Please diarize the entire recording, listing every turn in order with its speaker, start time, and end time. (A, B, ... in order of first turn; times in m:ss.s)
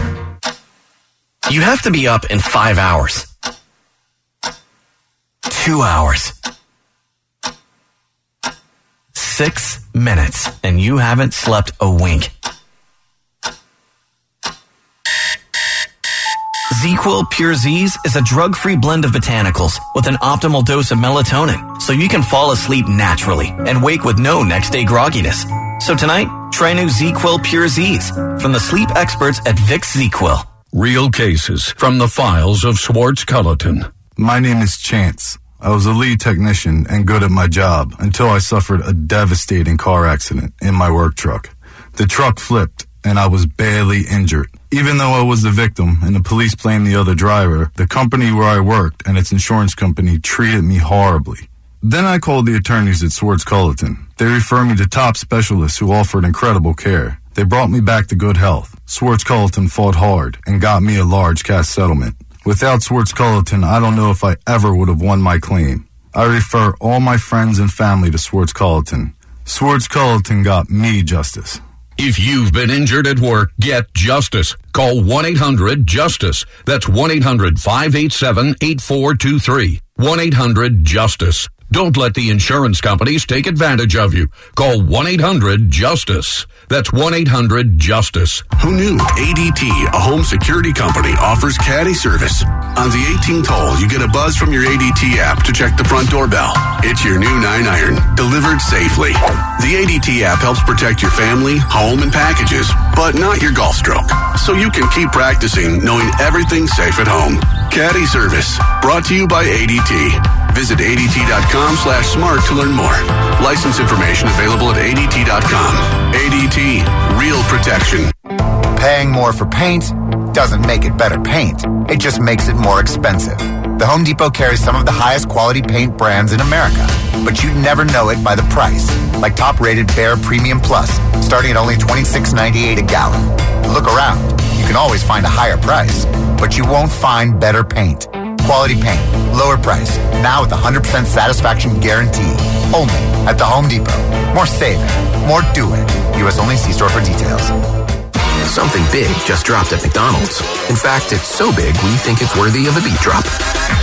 0:01.4-0:03.3 A
0:05.5-0:06.3 A
0:09.1-0:12.3 A
0:16.7-0:30.5 A
0:30.7-0:33.9 B
0:34.2-1:11.6 C
1:12.0-1:28.5 B
1:28.5-1:58.1 D
1:58.7-2:27.5 E
2:28.4-2:33.3 F